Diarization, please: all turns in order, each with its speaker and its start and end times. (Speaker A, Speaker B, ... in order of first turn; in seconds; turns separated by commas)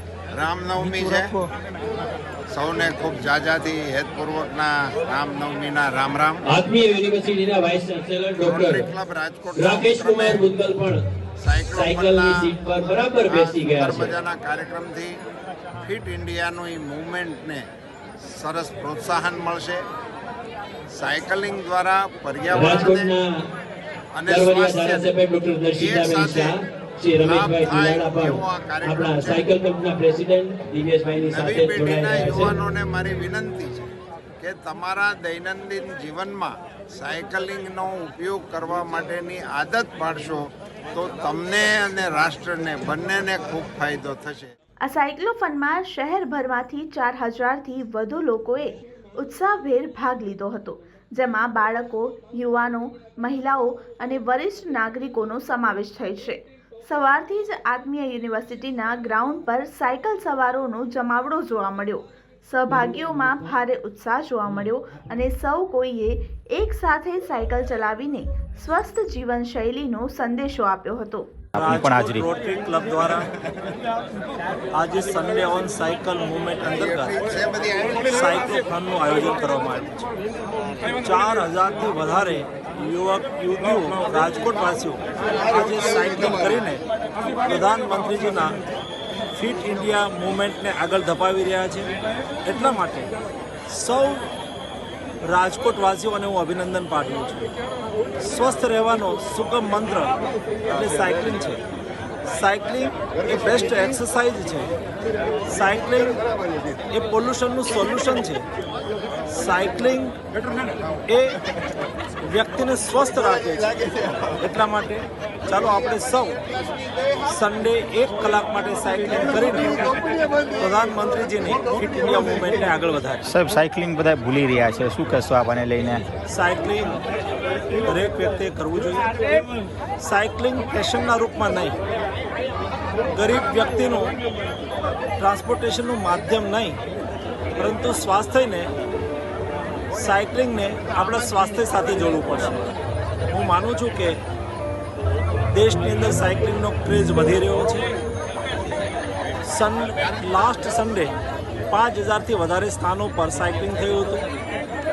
Speaker A: 0.3-1.5, Speaker A: 2.5-6.6, Speaker B: 6.5-8.9, Speaker A: 8.4-10.6, Speaker B: 9.6-11.0, Speaker A: 11.4-12.5, Speaker B: 11.6-14.1, Speaker A: 13.2-15.2, Speaker A: 15.8-17.7, Speaker A: 18.2-19.9, Speaker A: 20.9-23.1, Speaker B: 22.5-23.4, Speaker A: 24.1-25.1, Speaker B: 24.3-32.6, Speaker A: 25.8-26.6, Speaker A: 27.1-29.5, Speaker A: 31.2-33.9, Speaker A: 34.4-44.5, Speaker C: 44.8-71.4, Speaker D: 71.5-72.3, Speaker E: 71.6-73.3, Speaker E: 74.7-77.2, Speaker A: 76.6-78.1, Speaker E: 78.1-80.1, Speaker E: 81.0-86.8, Speaker E: 87.5-88.6, Speaker E: 89.3-91.9, Speaker E: 92.4-93.1, Speaker E: 93.7-94.3, Speaker E: 95.2-97.5, Speaker E: 98.2-101.6, Speaker E: 102.3-104.7, Speaker E: 105.5-106.2, Speaker E: 106.9-108.4, Speaker E: 109.3-110.2, Speaker E: 111.1-111.4, Speaker E: 112.3-116.4, Speaker E: 117.2-123.2, Speaker D: 123.2-126.1, Speaker E: 126.3-127.0, Speaker E: 127.8-129.5, Speaker E: 130.0-131.8, Speaker E: 133.1-134.2, Speaker E: 135.2-136.8, Speaker E: 137.6-138.7, Speaker E: 139.9-142.7, Speaker E: 143.3-144.2, Speaker E: 145.5-147.9, Speaker E: 149.5-151.2, Speaker E: 151.7-154.3